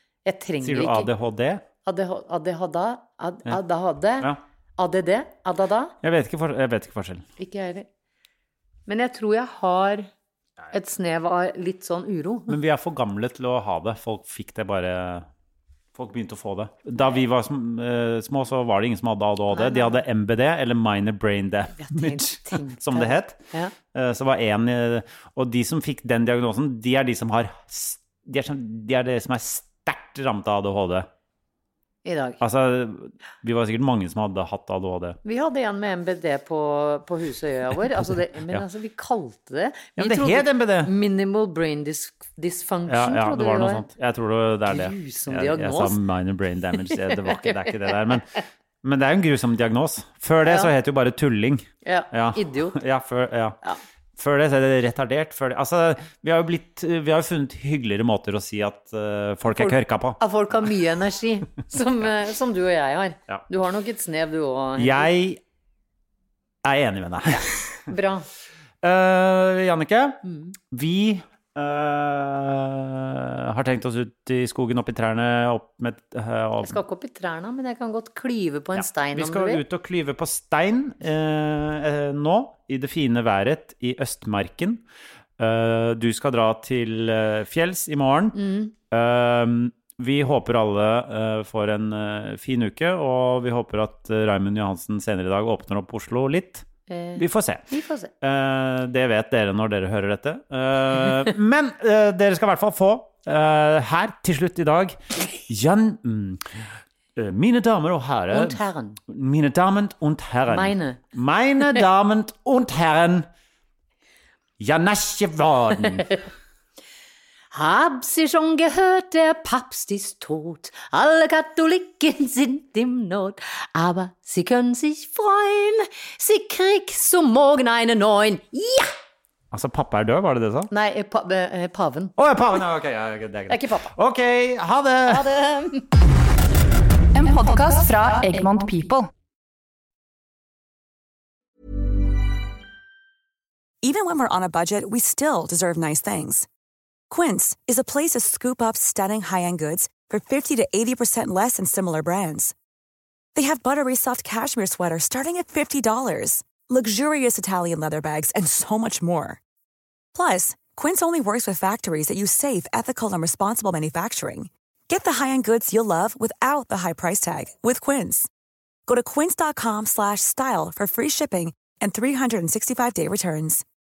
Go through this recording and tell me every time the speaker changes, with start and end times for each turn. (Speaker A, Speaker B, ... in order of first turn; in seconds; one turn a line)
Speaker A: 0.2-1.1
Speaker B: 0.6-1.6
Speaker A: 1.8-5.9
Speaker B: 6.0-7.2
Speaker A: 7.4-7.9
Speaker A: 8.9-10.1
Speaker A: 10.7-12.6
Speaker B: 12.5-15.3
Speaker B: 15.9-23.4
Speaker A: 19.5-20.0
Speaker A: 21.8-23.7
Speaker B: 23.9-31.1
Speaker A: 32.0-32.4
Speaker B: 32.4-35.2
Speaker A: 35.2-43.8
Speaker B: 40.0-40.9
Speaker B: 42.9-53.6
Speaker A: 44.7-46.0
Speaker A: 47.0-48.2
Speaker A: 50.4-50.7
Speaker A: 51.8-52.8
Speaker B: 54.2-60.2
Speaker A: 59.5-65.1
Speaker B: 64.8-65.4
Speaker B: 66.6-67.9
Speaker A: 67.9-68.3
Speaker B: 68.8-76.8
Speaker A: 76.6-79.6
Speaker B: 78.7-84.8
Speaker B: 85.4-88.4
Speaker A: 88.3-88.7
Speaker B: 88.9-96.7
Speaker A: 96.9-98.1
Speaker B: 97.2-97.7
Speaker B: 98.2-106.4
Speaker B: 107.2-113.3
Speaker A: 108.3-109.0
Speaker A: 110.5-111.0
Speaker B: 114.6-116.2
Speaker A: 117.5-128.9
Speaker B: 129.5-130.7
Speaker A: 130.7-132.1
Speaker B: 132.2-135.3
Speaker A: 133.5-133.9
Speaker A: 135.1-135.9
Speaker C: 137.1-139.1
Speaker D: 143.8-146.5
Speaker D: 147.1-152.5
Speaker D: 153.3-159.4
Speaker D: 160.1-168.3
Speaker D: 168.9-173.6